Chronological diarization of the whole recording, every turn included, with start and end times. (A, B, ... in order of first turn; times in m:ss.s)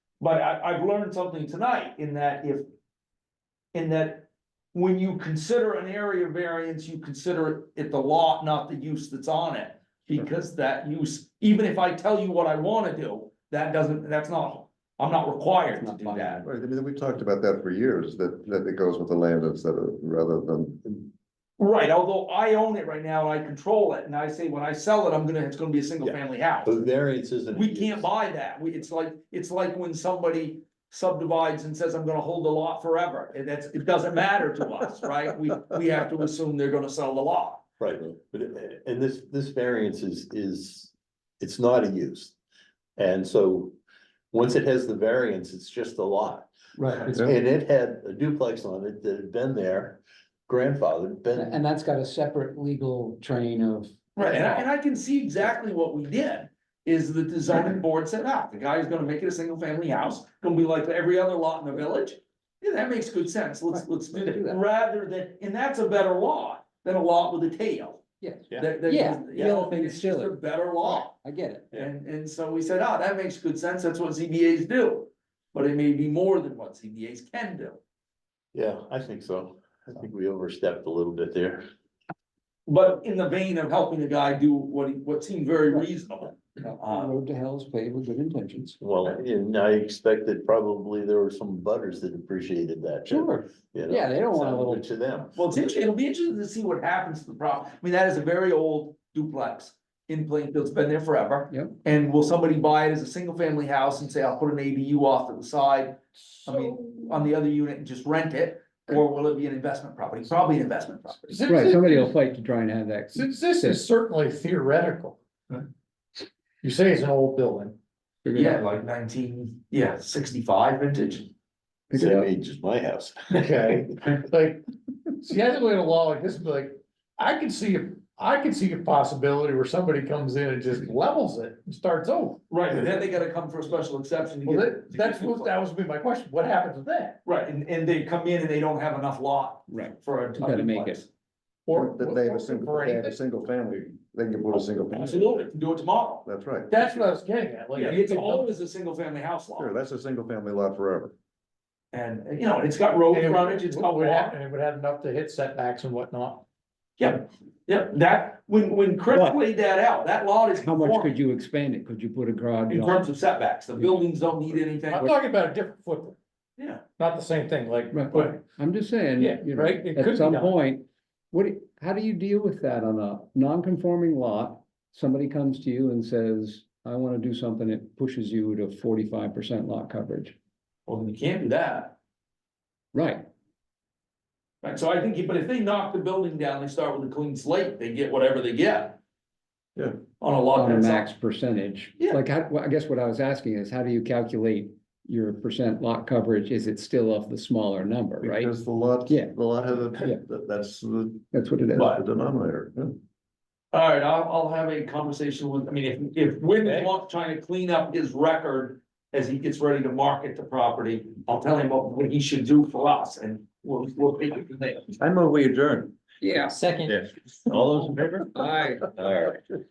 0:00.2-0:02.6 A
0:03.7-0:16.4 A
0:15.7-0:16.4 B
0:16.4-0:21.0 C
0:21.6-0:26.8 A
0:26.0-0:28.1 D
0:27.5-0:37.6 A
0:37.8-0:42.3 D
0:43.0-0:43.8 D
0:44.3-0:51.6 D
0:46.8-0:47.1 B
0:51.3-0:54.7 B
0:54.2-1:11.1 A
1:03.7-1:04.6 B
1:08.2-1:11.7 B
1:11.7-1:17.8 A
1:18.5-1:21.7 D
1:22.7-1:27.1 A
1:26.6-1:28.8 B
1:28.8-1:35.6 D
1:33.1-1:34.8 B
1:35.4-1:51.4 A
1:41.5-1:41.8 B
1:46.5-1:47.0 E
1:51.3-1:52.2 E
1:51.5-1:53.8 B
1:53.1-1:55.2 E
1:56.6-1:57.8 E
1:58.2-1:58.6 B
1:58.3-2:01.3 A
2:01.9-2:02.3 B
2:01.9-2:03.9 D
2:03.3-2:04.6 E
2:05.2-2:12.4 E
2:12.5-2:15.5 A
2:14.4-2:17.2 E
2:17.2-2:21.1 A
2:19.7-2:21.0 B
2:21.6-2:23.2 E
2:21.7-2:25.4 C
2:24.9-2:26.2 A
2:26.2-2:26.7 C
2:26.7-2:28.5 E
2:27.7-2:29.7 A
2:29.6-2:31.1 C
2:31.9-2:34.4 A
2:33.1-2:36.4 E
2:37.0-2:41.2 A
2:39.1-2:39.4 B
2:40.6-2:43.1 B
2:42.7-2:45.1 A
2:43.8-2:44.1 B
2:44.9-2:46.2 E
2:47.0-2:48.4 E
2:47.9-3:00.3 B
2:49.2-2:50.6 E
3:00.9-3:01.9 A
3:02.9-3:03.3 B
3:04.6-3:09.0 A
3:10.2-3:11.1 A
3:10.5-3:18.5 B
3:18.2-3:21.2 C
3:19.1-3:19.3 B
3:19.9-3:20.2 B
3:21.3-3:22.0 B
3:21.7-3:22.0 A
3:21.8-3:23.0 C
3:23.7-3:35.0 A
3:35.0-3:35.9 F
3:36.2-3:36.6 B
3:36.5-3:36.8 F
3:36.8-3:39.4 D
3:37.6-3:38.7 F
3:38.3-3:38.9 B